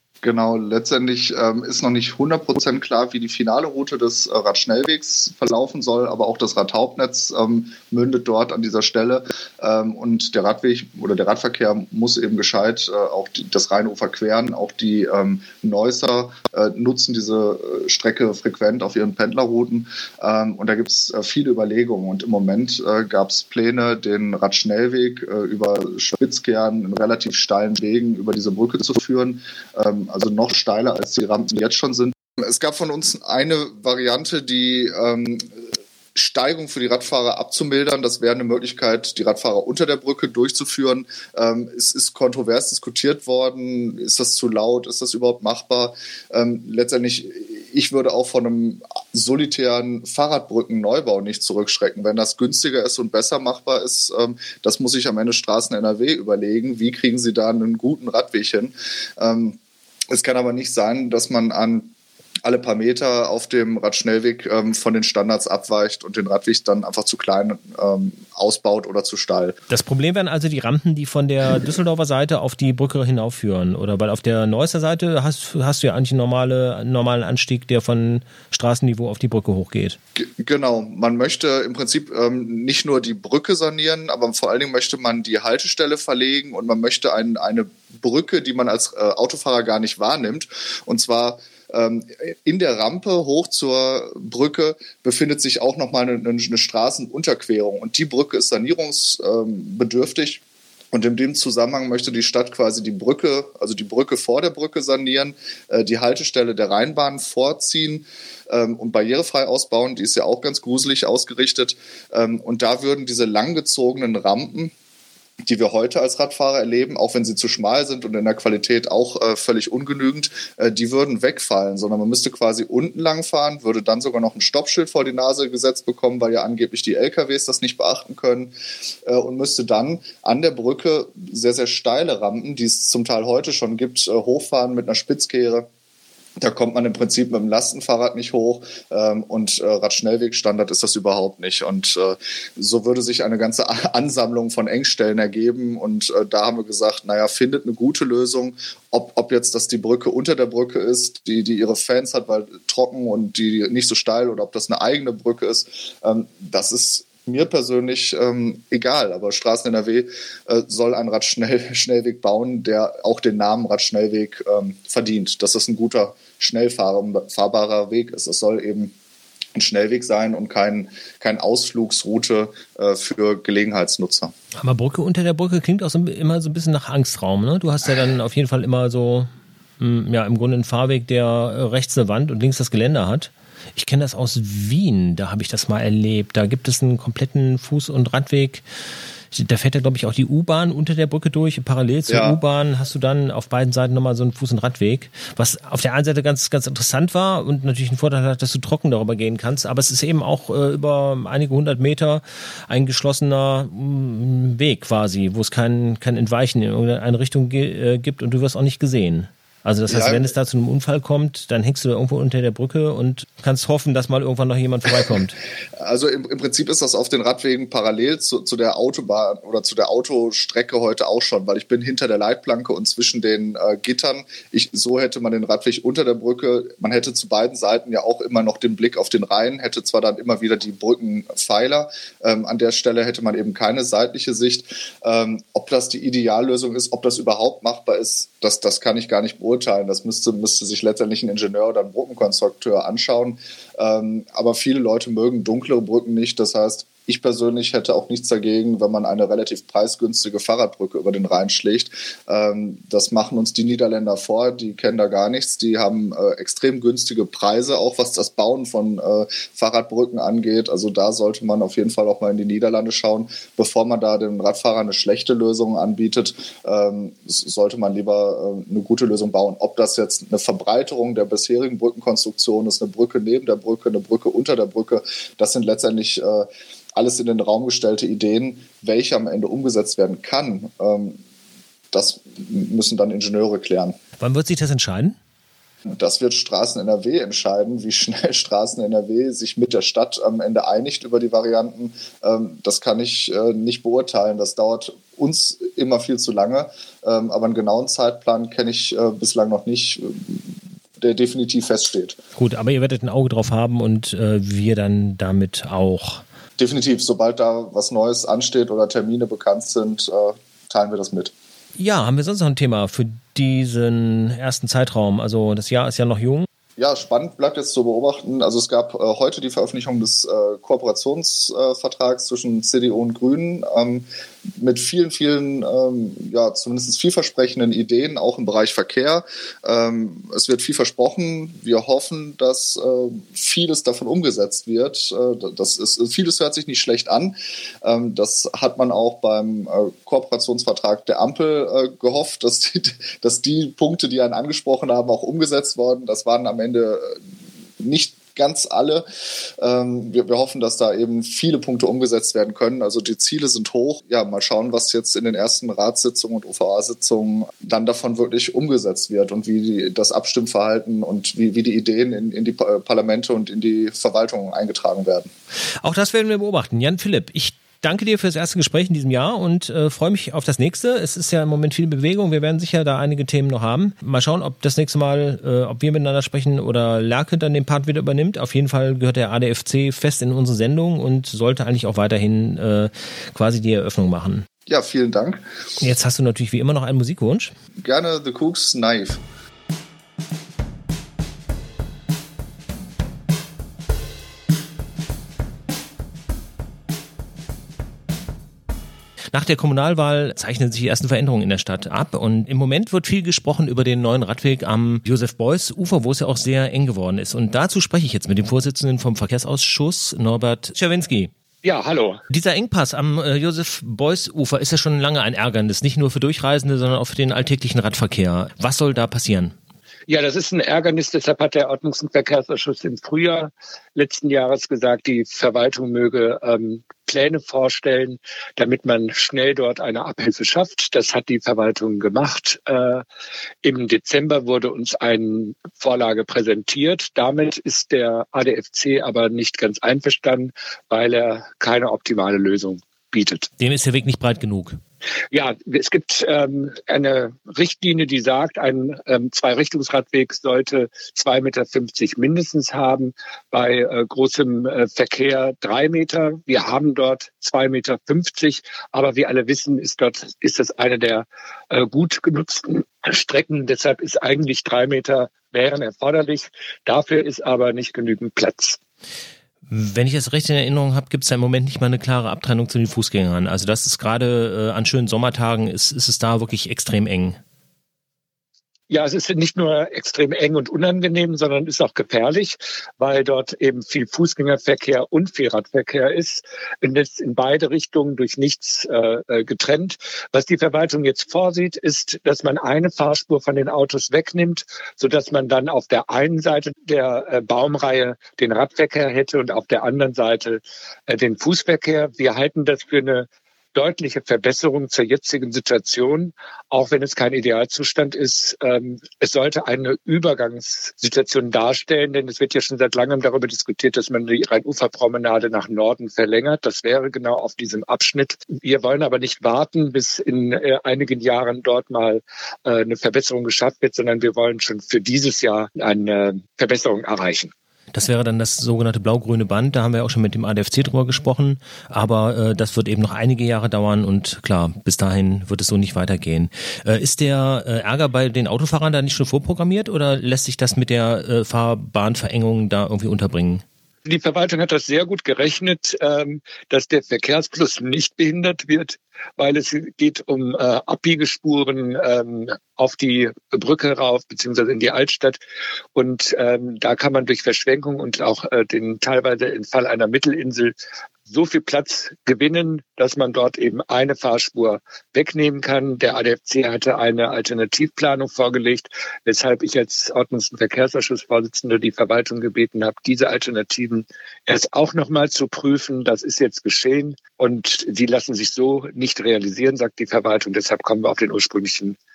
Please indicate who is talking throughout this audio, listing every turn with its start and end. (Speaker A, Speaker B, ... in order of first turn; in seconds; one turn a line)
Speaker A: 0.2-59.6
Speaker A: 60.1-61.9
Speaker A: 62.4-69.6
Speaker B: 69.7-80.0
Speaker A: 80.2-114.7
Speaker A: 115.4-128.5
Speaker A: 129.0-135.7
Speaker A: 136.4-168.9
Speaker A: 169.5-174.3
Speaker B: 174.6-188.6
Speaker B: 189.3-215.4
Speaker A: 192.1-192.4
Speaker A: 209.9-210.3
Speaker A: 215.8-281.2
Speaker A: 281.9-283.9
Speaker B: 284.2-285.2
Speaker A: 285.9-302.2
Speaker B: 302.4-306.2
Speaker A: 306.6-311.3
Speaker B: 311.8-316.5
Speaker A: 316.8-324.1
Speaker A: 324.6-347.2
Speaker A: 347.8-349.0
Speaker A: 349.6-365.3
Speaker B: 365.8-384.4
Speaker A: 384.7-385.4
Speaker B: 385.8-387.5
Speaker A: 387.8-389.2
Speaker B: 399.3-411.3
Speaker C: 411.6-412.2
Speaker B: 412.3-419.5
Speaker C: 420.1-433.0
Speaker C: 433.6-443.5
Speaker B: 443.6-444.8
Speaker C: 445.3-468.8
Speaker B: 469.7-477.4
Speaker C: 478.9-527.5
Speaker B: 527.9-543.6
Speaker C: 544.0-555.4
Speaker C: 555.9-560.7
Speaker C: 561.3-582.0